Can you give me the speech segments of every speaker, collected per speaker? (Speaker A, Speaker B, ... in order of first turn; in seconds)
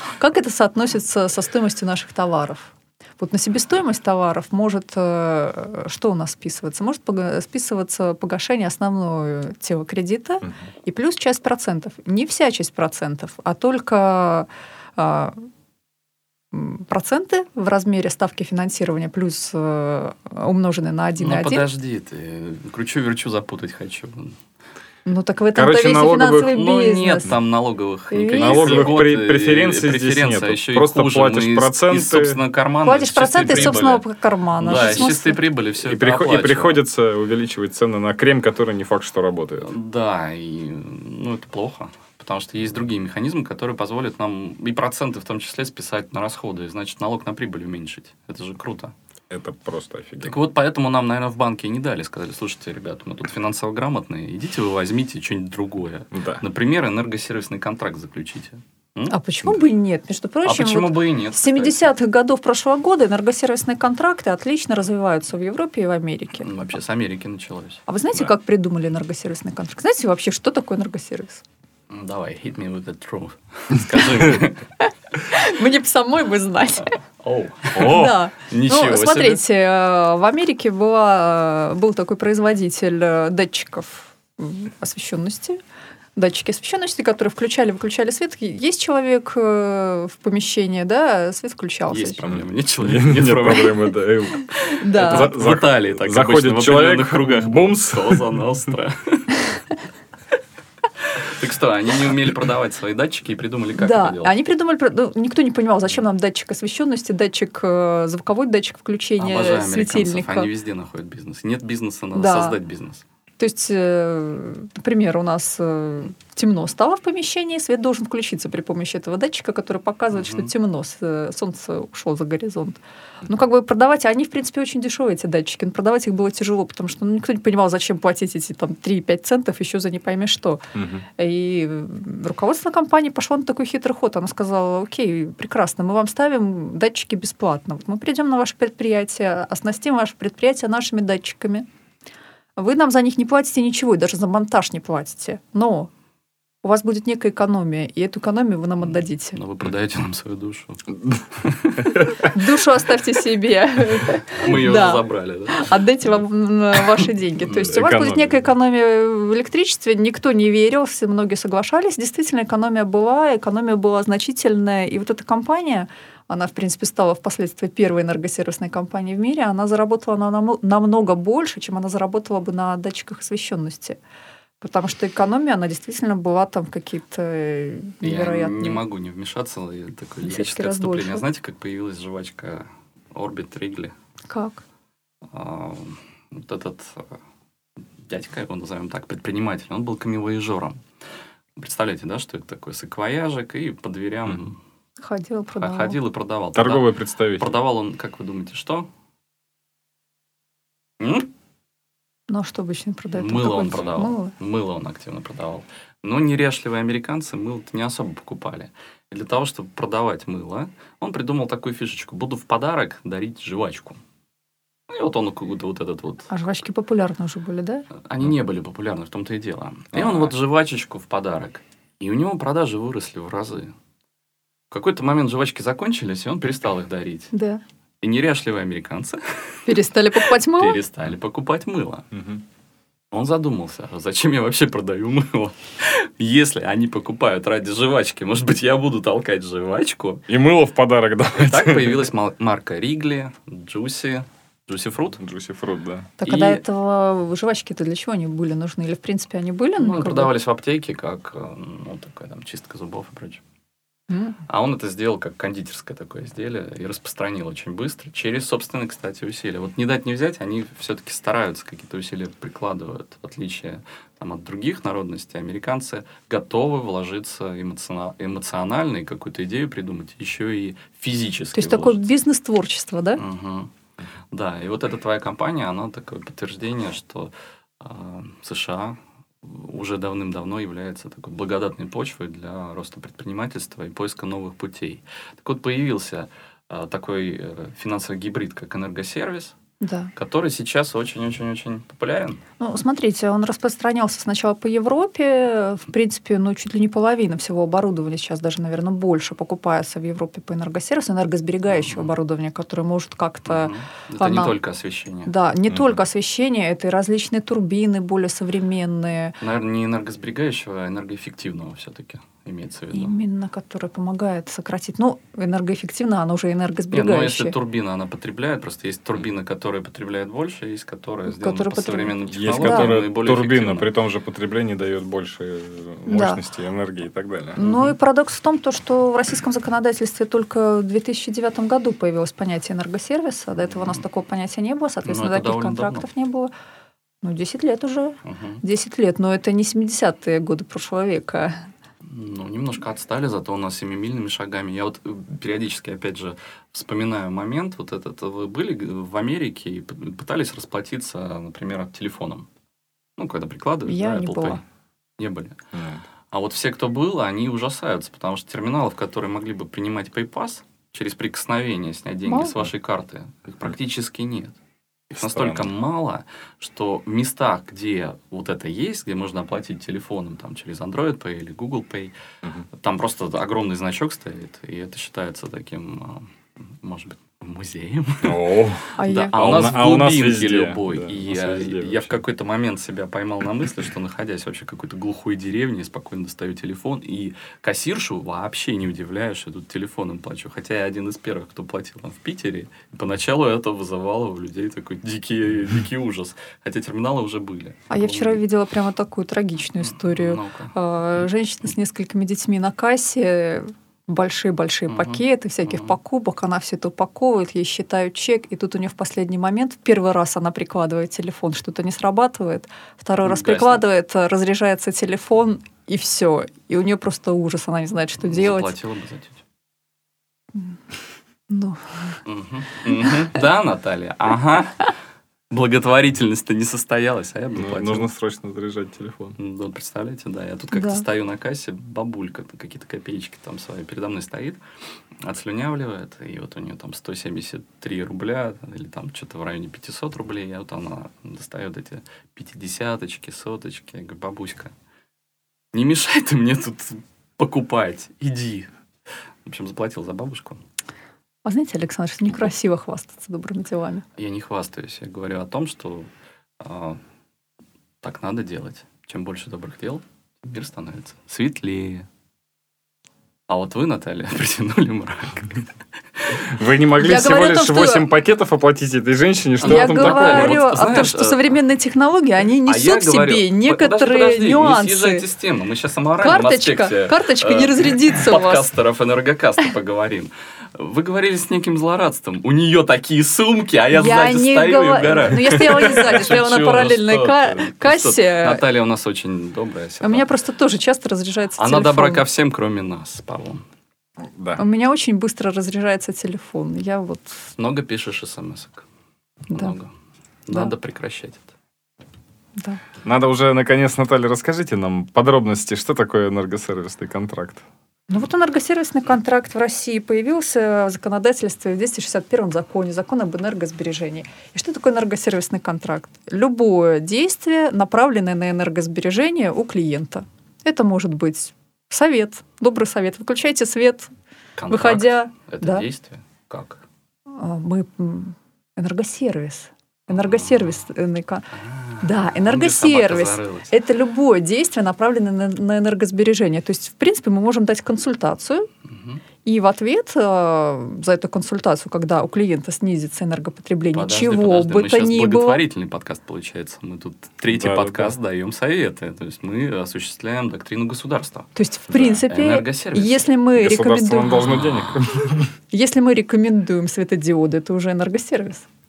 Speaker A: 0.2-15.5, 16.5-21.6, 25.1-27.3, 28.1-29.0, 32.8-35.4, 59.1-66.5, 67.9-71.4, 75.2-77.0, 77.7-85.6, 86.2-92.2, 94.7-95.4, 103.8-110.5, 112.2-112.6, 113.4-141.7, 142.6-145.9, 146.6-149.4, 152.3-174.0, 174.6-178.8, 180.2-181.3, 184.3-184.6, 195.0-196.0, 202.3-204.3, 216.3-217.9, 227.3-227.6, 229.7-230.8, 246.2-250.3, 254.1-254.4, 271.6-273.2, 289.8-290.1, 292.6-304.6, 305.2-309.4, 312.9-317.6, 321.3-322.9, 326.1-326.4, 327.6-336.5, 337.2-341.7, 353.9-354.6, 362.3-362.5, 379.0-379.4, 397.9-418.8, 421.5-422.2, 422.9-423.3, 430.7-431.1, 451.4-454.1, 467.0-468.1, 469.6-475.2, 476.2-478.7, 483.9-488.6, 490.0-492.2, 494.6-497.5, 502.6-502.8, 508.1-524.1, 524.7-525.9, 527.4-531.5, 532.0-538.7, 539.5-545.6, 551.6-554.5, 555.7-558.7
Speaker B: 21.2-24.4, 26.5-34.1, 34.6-36.8, 39.6-48.9, 50.2-59.2, 60.4-61.8, 66.4-67.8, 71.9-74.6, 77.2-79.4, 91.9-93.9, 94.6-99.4, 101.0-104.3, 109.2-113.0, 120.1-120.5, 149.3-152.3, 154.3-155.7, 157.4-157.8, 178.0-183.9, 185.3-187.2, 188.0-190.8, 191.6-194.6, 195.6-198.9, 201.0-201.3, 203.1-214.0, 214.9-216.3, 217.9-223.8, 224.7-227.3, 228.0-232.1, 233.1-240.2, 241.4-245.2, 246.2-246.6, 249.8-253.4, 254.5-272.0, 273.2-273.7, 274.3-289.5, 290.1-292.4, 301.7-302.1, 303.5-305.3, 309.4-313.1, 316.9-323.9, 327.6-328.0, 333.7-334.0, 335.1-336.1, 338.2-338.6, 342.0-352.5, 353.2-354.6, 355.2-355.6, 356.3-364.6, 365.1-372.1, 372.7-376.3, 376.8-398.4, 399.8-400.7, 404.9-406.0, 413.2-413.8, 418.2-419.4, 422.2-424.9, 425.5-428.1, 429.4-434.6, 435.2-444.7, 445.7-448.7, 449.4-450.6, 454.2-457.0, 458.0-462.1, 463.5-466.5, 469.6-471.6, 472.6-490.3, 491.6-493.6, 497.6-498.9, 499.5-499.9, 500.5-501.5, 524.6-526.8, 530.1-530.8, 531.5-533.8, 538.9-539.2, 543.9-553.3, 554.4-555.0
Speaker C: 25.5-26.6, 28.4-32.4, 33.5-33.8, 34.7-35.0, 35.8-39.7, 49.3-50.4, 56.1-56.4, 77.7-78.2, 92.2-98.4, 130.8-131.1, 151.8-152.2, 157.7-158.4, 196.6-197.5, 219.9-220.3, 232.1-232.4, 240.3-242.1, 245.2-246.1, 305.7-306.0, 322.3-327.6, 355.7-356.0, 365.1-365.7, 378.2-382.2, 427.6-429.4, 466.5-470.6, 494.3-494.6, 503.0-507.6, 547.5-548.1, 552.0-552.2, 553.6-555.5